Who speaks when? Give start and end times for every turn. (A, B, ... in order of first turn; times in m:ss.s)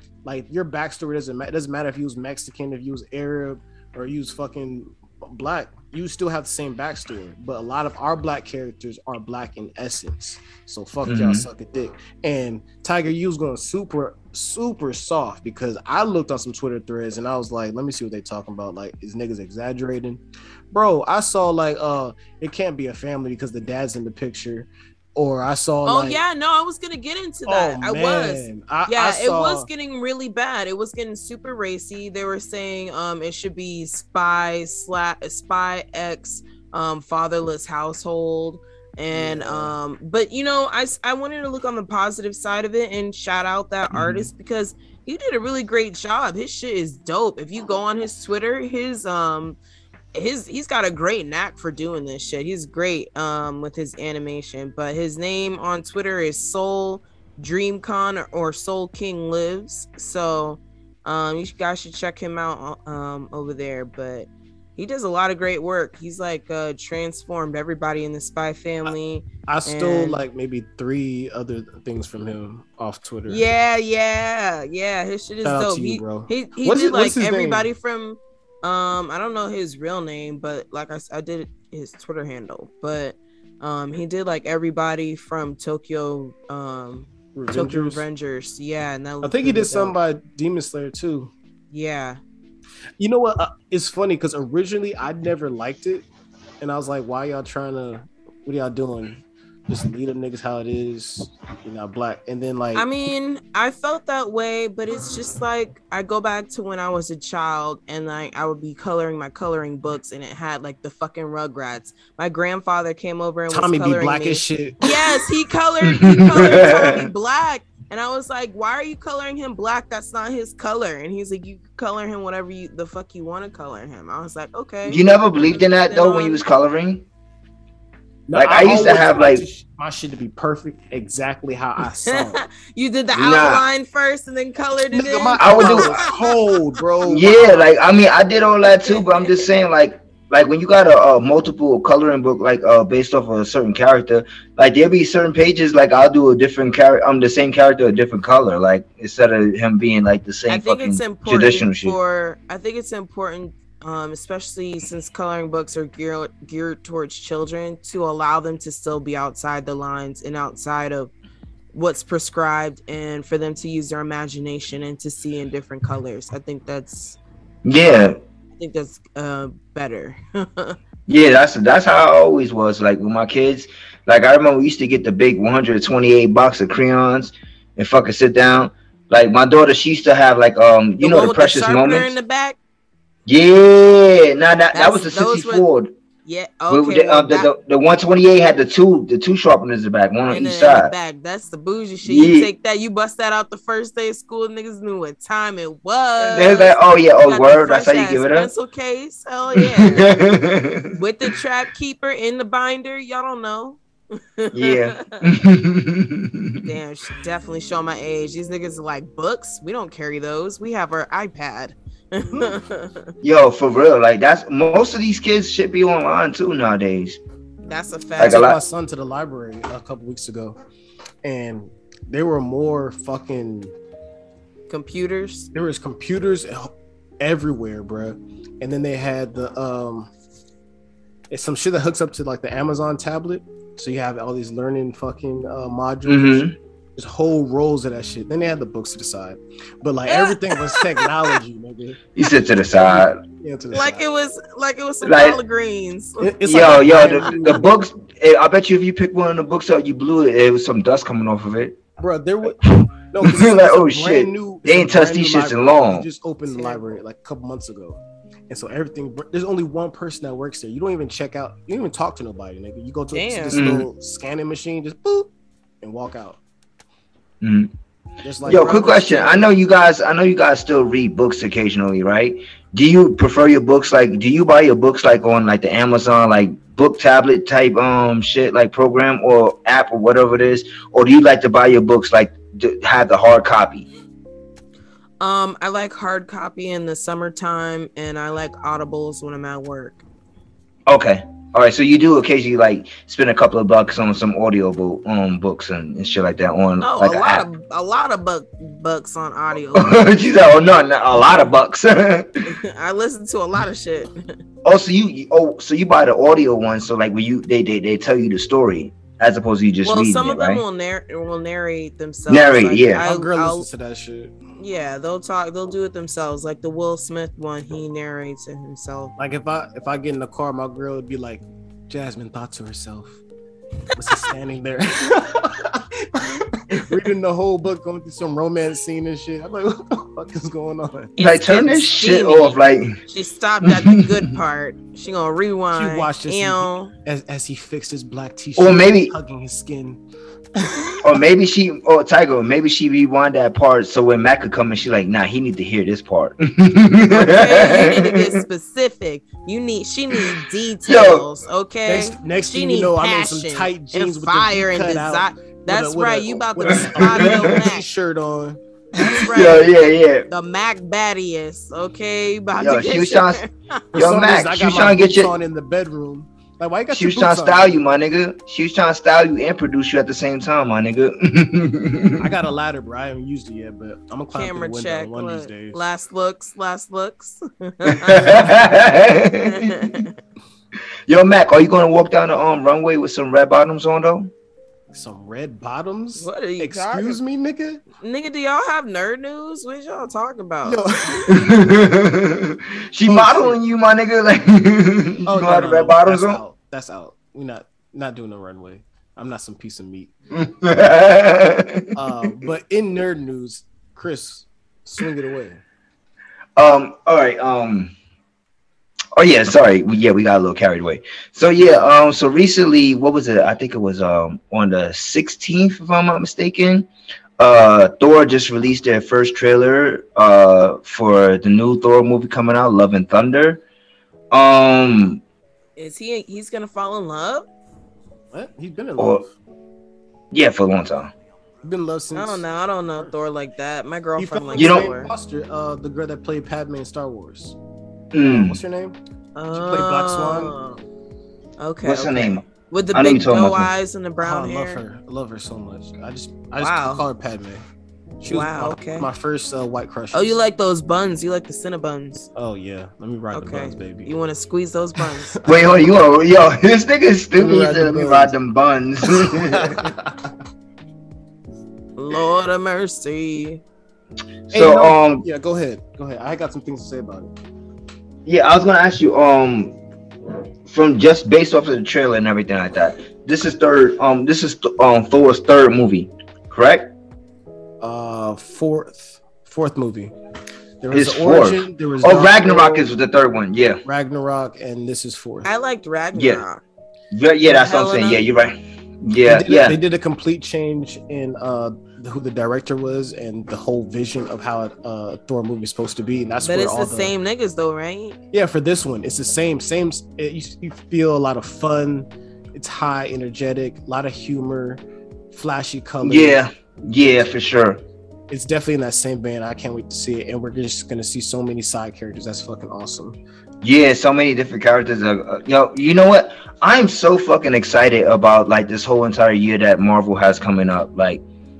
0:00.2-0:26.2 A
0:11.0-0:11.4 B
0:25.8-0:49.6 C
0:27.5-0:29.7 A
0:39.1-0:39.8 A
0:43.9-0:44.2 B
0:50.1-1:10.2 C
1:09.5-1:13.4 A
1:13.3-1:30.0 C
1:15.4-1:17.7 A
1:27.3-1:28.0 A
1:29.2-1:31.3 A
1:31.7-1:32.2 C
1:33.0-1:36.0 A
1:36.6-1:42.9 A
1:42.7-2:06.4 C
1:53.5-1:55.3 A
1:55.9-1:57.1 B
2:04.8-2:07.0 B
2:08.3-2:12.4 A
2:08.3-2:09.4 B
2:12.1-2:16.3 C
2:13.1-2:13.6 B
2:14.9-2:17.7 A
2:15.4-2:16.1 B
2:17.0-2:32.0 B
2:18.8-2:19.4 C
2:30.5-2:41.1 C
2:41.7-2:47.2 C
2:47.6-2:48.2 B
2:47.9-2:50.8 C
2:51.1-3:02.1 B
3:01.0-3:02.6 C
3:03.2-3:05.9 B
3:04.7-3:05.7 C
3:06.2-3:07.5 C
3:06.7-3:10.9 B
3:10.3-3:20.1 C
3:12.0-3:12.5 B
3:16.3-3:18.5 B
3:19.6-3:20.9 B
3:20.9-3:23.8 C
3:24.4-3:25.2 C
3:24.5-3:26.7 B
3:26.6-3:33.1 C
3:33.2-3:37.2 B
3:37.6-3:38.5 C
3:38.2-3:38.6 B
3:38.2-3:40.6 A
3:41.2-3:43.7 A
3:44.7-3:45.5 C
3:45.5-3:50.1 A
3:51.3-4:02.0 A
3:56.0-3:56.6 B
4:00.1-4:01.1 C
4:02.1-4:03.2 B
4:02.8-4:04.0 A
4:03.7-4:06.3 C
4:05.0-4:05.4 B
4:06.2-4:07.6 A
4:06.4-4:11.8 B
4:06.9-4:07.3 C
4:12.0-4:25.3 A
4:12.6-4:16.0 B
4:16.5-4:16.8 C
4:23.1-4:23.6 C
4:23.5-4:23.8 B
4:25.8-4:26.4 A
4:27.4-4:27.7 B
4:28.2-4:29.0 A
4:28.4-4:29.5 C
4:28.4-4:43.9 B
4:45.2-4:50.0 C
4:50.9-4:57.4 B
4:56.8-5:00.0 C
4:59.7-5:02.3 B
5:02.5-5:04.1 C
5:04.6-5:10.6 B
5:09.8-5:13.7 C
5:12.3-5:13.0 B
5:13.0-5:14.3 A
5:14.6-5:19.1 C
5:19.2-5:23.2 A
5:23.9-5:31.1 A
5:31.2-5:36.9 C
5:31.2-5:33.0 B
5:33.6-5:34.2 B
5:35.7-5:40.0 A
5:38.6-5:39.1 B
5:40.6-5:41.1 A
5:41.0-5:48.3 B
5:47.1-5:57.8 C
5:50.8-5:51.2 B
5:51.8-5:58.6 A
5:56.6-5:57.4 B
5:59.0-5:59.6 C
5:59.0-6:00.2 B
6:00.3-6:03.8 C
6:02.6-6:03.4 B
6:03.9-6:07.9 A
6:03.9-6:05.3 B
6:06.9-6:12.3 B
6:12.2-6:15.8 A
6:14.3-6:18.4 C
6:17.9-6:20.0 B
6:19.5-6:20.1 C
6:21.1-6:24.3 B
6:24.9-6:27.8 A
6:26.2-6:27.2 C
6:28.0-6:31.3 C
6:30.6-6:31.2 A
6:31.3-6:36.4 B
6:33.0-6:33.6 A
6:35.2-6:40.2 A
6:40.4-6:41.8 B
6:41.9-6:45.6 A
6:46.6-6:47.9 B
6:49.2-6:56.9 B
6:51.6-6:51.9 A
6:57.4-7:03.6 B
7:04.3-7:05.2 B
7:05.8-7:07.5 C
7:08.3-7:09.3 A
7:09.0-7:09.2 B
7:10.3-7:11.1 B
7:11.6-7:12.4 A
7:12.2-7:15.1 C
7:14.2-7:17.6 A
7:14.5-7:14.9 B
7:18.1-7:18.6 B
7:18.2-7:19.0 A
7:19.4-7:20.8 C
7:19.5-7:20.6 A
7:21.6-7:24.8 C
7:21.8-7:23.7 B
7:24.2-7:27.6 A
7:26.6-7:27.0 C
7:28.2-7:30.4 A
7:28.3-7:29.1 C
7:30.1-7:32.3 C
7:32.3-7:34.1 A
7:33.3-7:35.4 C
7:35.0-7:35.8 A
7:35.4-7:39.8 B
7:37.4-7:38.3 A
7:39.0-7:40.3 A
7:42.0-7:43.6 C
7:44.5-7:45.2 B
7:44.5-7:47.3 A
7:48.2-7:49.8 B
7:50.7-7:56.9 B
7:57.8-8:00.1 A
8:00.8-8:02.9 A
8:00.9-8:03.8 B
8:03.8-8:05.5 A
8:05.4-8:06.6 C
8:06.1-8:06.4 B
8:07.1-8:09.8 B
8:07.4-8:08.2 C
8:09.2-8:17.1 A
8:16.4-8:18.2 C
8:18.3-8:26.4 A
8:26.0-8:27.8 B
8:28.3-8:33.2 A
8:33.6-8:41.2 B